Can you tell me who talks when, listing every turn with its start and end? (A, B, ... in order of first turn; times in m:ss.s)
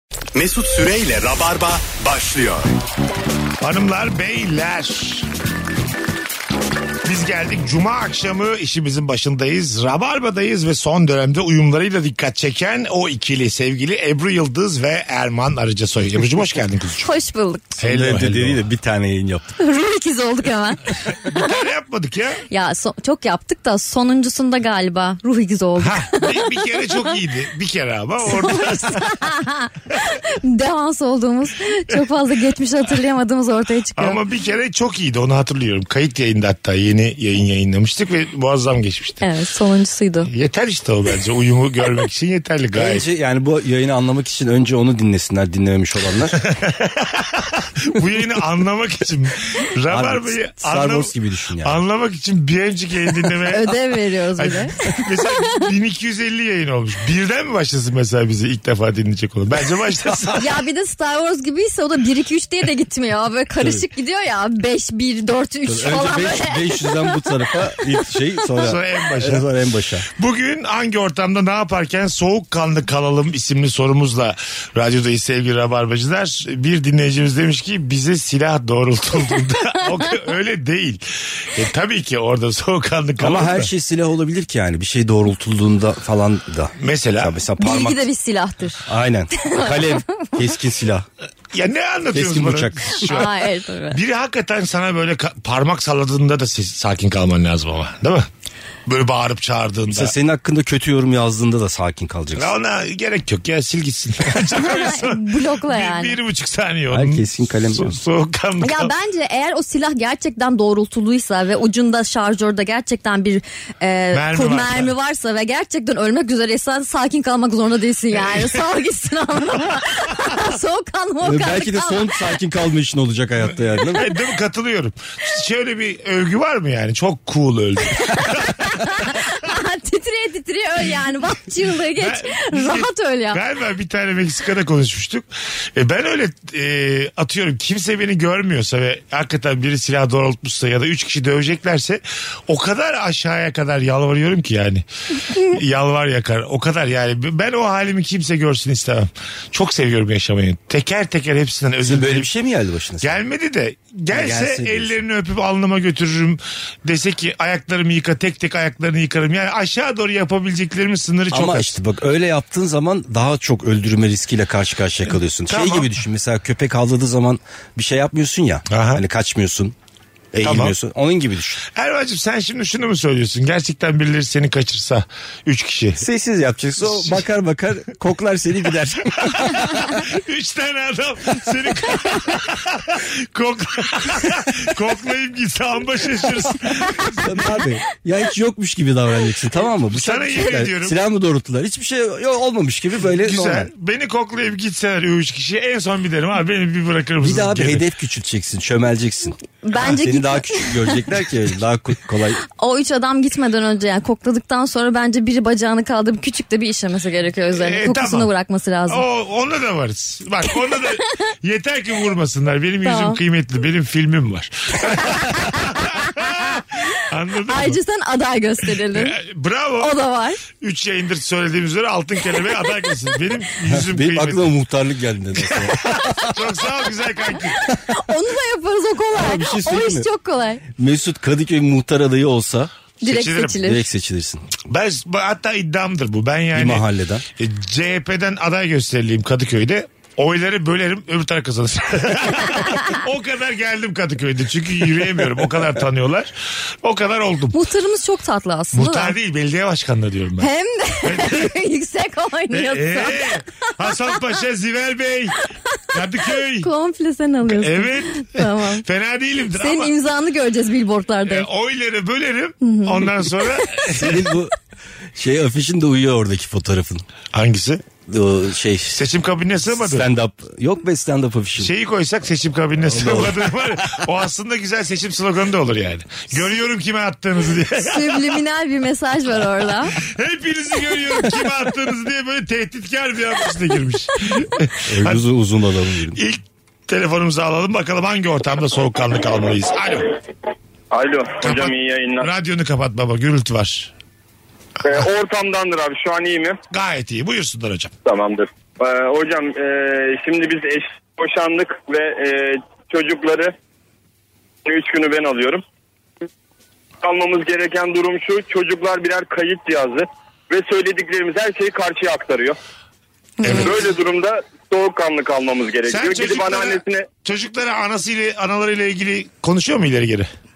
0:00.3-0:02.7 A
0:03.6-0:05.3 B
0:07.0-0:17.1 B
0:17.0-0:17.8 C
0:17.8-0:18.6 B
0:17.8-0:19.6 D
0:19.6-0:21.4 C
0:21.1-0:22.4 B
0:22.5-0:27.0 C
0:25.8-0:29.3 B
0:28.3-0:34.2 C
0:34.0-0:39.2 B
0:39.2-0:40.3 C
0:40.3-0:43.0 B
0:42.7-0:46.4 D
0:46.4-0:51.1 B
0:49.9-0:51.8 D
0:51.6-0:53.8 B
0:53.4-0:55.6 C
0:54.4-1:00.5 B
1:00.0-1:00.3 D
1:00.4-1:08.6 C
1:03.6-1:03.9 D
1:05.6-1:10.1 D
1:08.6-1:09.4 B
1:10.2-1:23.7 B
1:23.2-1:28.0 D
1:26.8-1:27.3 B
1:27.6-1:30.3 C
1:28.9-1:31.1 D
1:31.5-1:38.3 B
1:32.1-1:33.0 D
1:33.0-1:34.0 C
1:38.8-1:40.1 B
1:39.9-1:42.5 D
1:42.3-1:48.9 B
1:44.6-1:46.2 C
1:46.9-1:48.0 D
1:48.6-2:02.1 C
1:54.1-1:54.9 B
2:01.2-2:04.1 D
2:03.9-2:09.2 B
2:08.5-2:13.4 C
2:12.0-2:32.3 B
2:31.8-2:33.2 D
2:33.0-2:41.7 B
2:34.1-2:35.0 D
2:41.3-2:49.7 D
2:45.5-2:45.9 B
2:48.7-2:49.0 B
2:50.3-2:51.6 D
2:50.4-2:50.7 B
2:51.7-2:56.0 B
2:56.0-2:59.7 D
2:56.8-2:57.2 B
2:59.2-3:07.4 B
3:07.1-3:13.7 D
3:09.9-3:11.0 B
3:13.1-3:17.8 B
3:17.2-3:22.4 D
3:19.6-3:21.0 C
3:22.5-3:29.0 C
3:27.5-3:28.3 B
3:28.9-3:37.8 B
3:32.8-3:33.2 C
3:35.1-3:36.6 C
3:37.5-3:39.2 C
3:38.8-3:39.9 B
3:39.8-3:40.4 C
3:40.5-3:44.5 B
3:43.6-3:46.2 D
3:45.7-3:47.6 B
3:45.9-3:46.3 C
3:47.8-3:50.6 C
3:49.1-3:50.1 D
3:50.7-3:52.7 D
3:53.0-3:53.8 C
3:53.0-3:53.6 B
3:53.5-3:54.4 D
3:54.6-4:07.6 B
3:56.5-3:57.2 D
4:07.5-4:09.1 C
4:08.7-4:10.5 B
4:10.4-4:14.2 C
4:11.0-4:11.5 B
4:12.5-4:15.3 B
4:15.9-4:16.7 B
4:16.6-4:18.8 C
4:17.4-4:19.9 B
4:19.5-4:21.5 C
4:21.2-4:24.3 B
4:22.6-4:23.8 C
4:23.9-4:24.5 D
4:25.1-4:27.0 D
4:27.3-4:27.8 B
4:28.0-4:29.0 D
4:28.9-4:30.1 B
4:29.7-4:31.7 D
4:31.6-4:38.4 B
4:32.8-4:33.8 D
4:37.8-4:39.9 C
4:40.0-4:45.2 B
4:44.9-4:46.2 D
4:46.2-4:50.1 B
4:50.9-4:52.3 E
4:51.4-4:53.9 B
4:54.8-4:56.6 E
4:56.7-4:57.9 B
4:58.0-5:03.5 E
5:04.6-5:05.6 E
5:07.0-5:12.6 E
5:13.4-5:13.7 C
5:13.4-5:13.9 B
5:13.5-5:17.1 E
5:15.9-5:20.3 B